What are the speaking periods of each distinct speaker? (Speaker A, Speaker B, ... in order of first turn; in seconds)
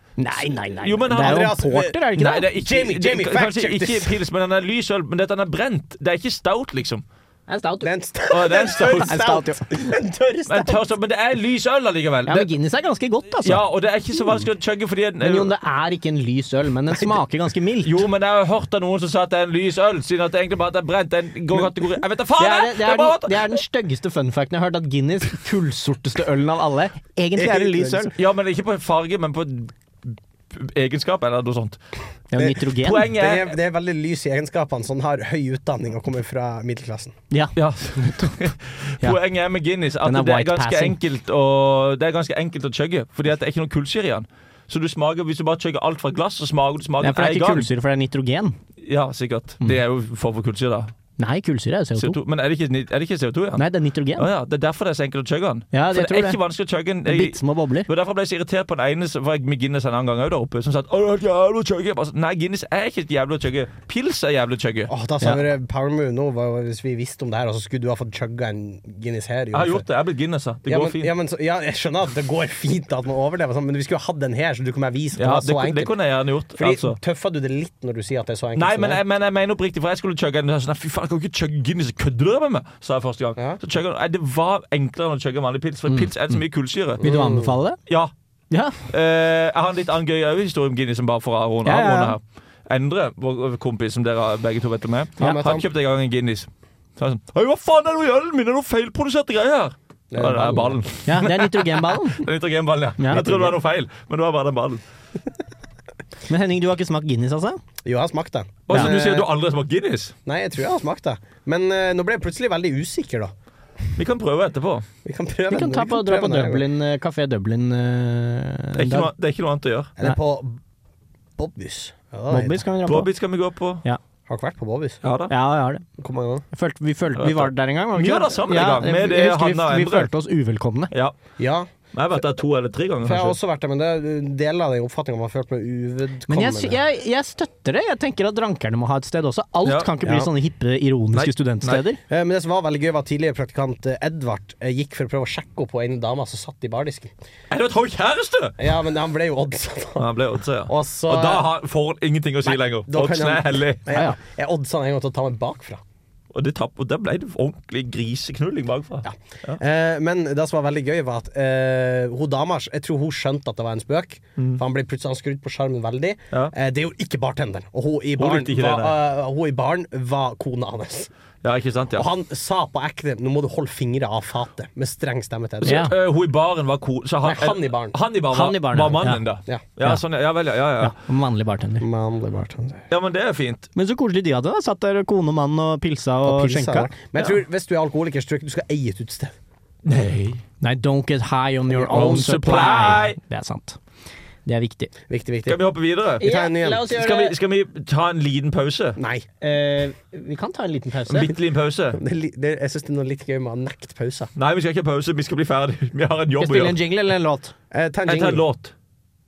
Speaker A: 0.2-2.5, 7.5-7.9, 8.5-9.7, 12.3-13.6, 15.2-18.0, 22.4-28.1, 32.3-33.1, 37.3-38.5, 40.0-41.0, 47.0-48.6, 51.2-52.2, 53.6-54.2, 55.7-56.4, 57.0-57.9, 87.0-87.8, 91.6-92.2, 101.0-102.2, 103.0-103.2, 106.3-107.6, 115.5-119.1, 122.3-123.1, 125.3-125.8, 126.5-130.9, 136.3-142.0, 153.9-154.2, 175.6-175.9, 178.3-179.2, 180.8-181.8, 183.7-186.9, 190.6-193.8, 194.4-194.9, 196.2-197.3, 199.4-201.3, 206.4-207.5
Speaker B: 0.8-1.6, 2.1-7.0, 8.3-9.2, 10.5-12.5, 13.4-15.5, 17.8-23.6, 28.1-31.8, 32.8-33.5, 37.5-47.7, 48.8-50.9, 52.0-53.6, 54.1-64.9, 69.5-71.1, 75.2-77.0, 78.5-87.0, 87.9-88.1, 88.9-104.8, 108.7-110.1, 114.0-114.8, 118.8-119.9, 122.9-123.8, 125.0-125.3, 127.2-130.1, 130.9-131.2, 131.9-133.3, 139.6-140.3, 141.1-141.9, 147.5-148.6, 150.0-153.8, 156.3-159.6, 168.2-168.9, 171.4-172.1, 175.6-180.9, 182.9-183.7, 189.8-190.4, 191.9-193.2, 195.4-196.3, 196.9-199.0, 201.1-202.0, 204.3-206.8, 208.1-208.7
Speaker C: 1.1-4.2, 7.8-10.9, 27.4-28.1, 32.4-37.1, 64.9-69.8, 70.7-75.9, 76.5-79.0, 87.0-87.5, 95.2-95.6, 100.1-100.8, 103.1-103.5, 107.8-109.2, 110.2-113.3, 115.0-116.6, 120.0-120.6, 121.4-122.6, 124.3-125.0, 126.0-126.4, 131.4-131.7, 133.0-136.8, 142.1-147.1, 148.6-150.1, 150.6-151.5, 152.4-155.8, 159.0-171.1, 171.9-175.9, 177.2-177.9, 181.8-182.8, 186.2-189.3, 191.7-193.0, 195.1-195.6, 196.2-196.9, 199.0-199.2, 201.9-204.3, 207.7-208.4